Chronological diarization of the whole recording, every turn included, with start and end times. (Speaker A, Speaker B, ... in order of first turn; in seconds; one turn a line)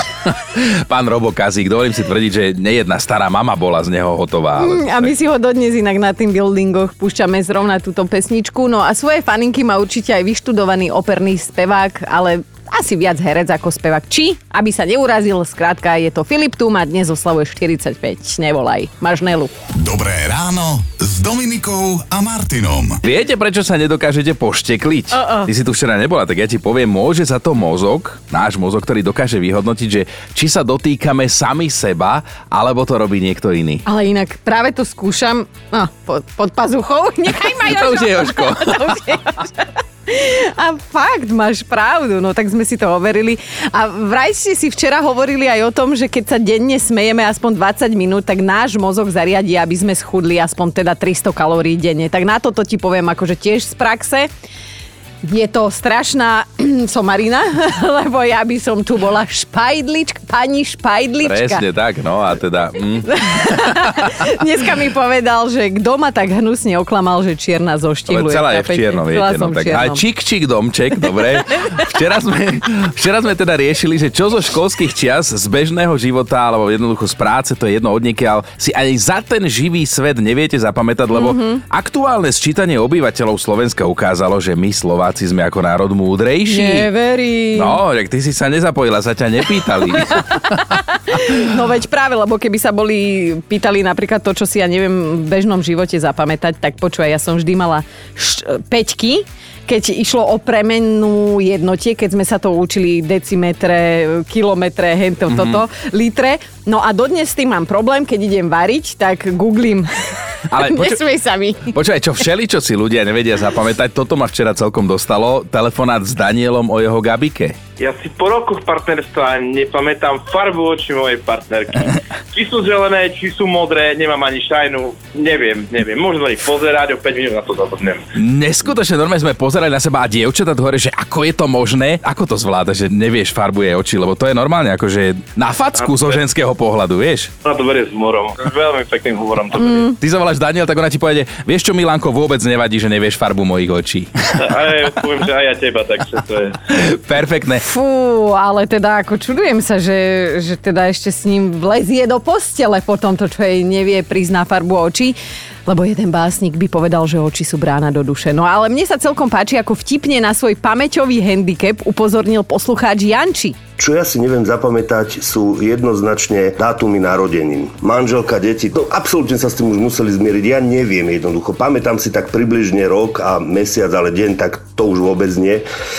Speaker A: 0.2-5.1
Speaker B: 4.6-19.5
Speaker C: 19.7-23.0
Speaker A: 23.0-33.8
Speaker B: 25.1-25.5
Speaker B: 33.8-54.3
Speaker A: 37.4-39.0
Speaker B: 55.2-61.6
Speaker A: 61.2-63.8
Speaker B: 63.1-70.0
Speaker A: 68.1-86.9
Speaker B: 81.1-81.6
Speaker B: 86.5-87.8
Speaker A: 87.5-90.4
Speaker B: 90.0-109.9
Speaker A: 105.3-105.6
Speaker A: 110.5-111.0
Speaker B: 110.5-111.7
Speaker A: 111.7-117.6
Speaker D: 117.8-128.0
Speaker A: 128.2-137.3
Speaker D: 135.8-136.1
Speaker D: 137.4-139.9
Speaker B: 139.6-139.9
Speaker A: 140.0-144.1
Speaker D: 144.4-146.5
Speaker A: 146.7-147.6
Speaker B: 147.6-163.6
Speaker E: 163.8-175.6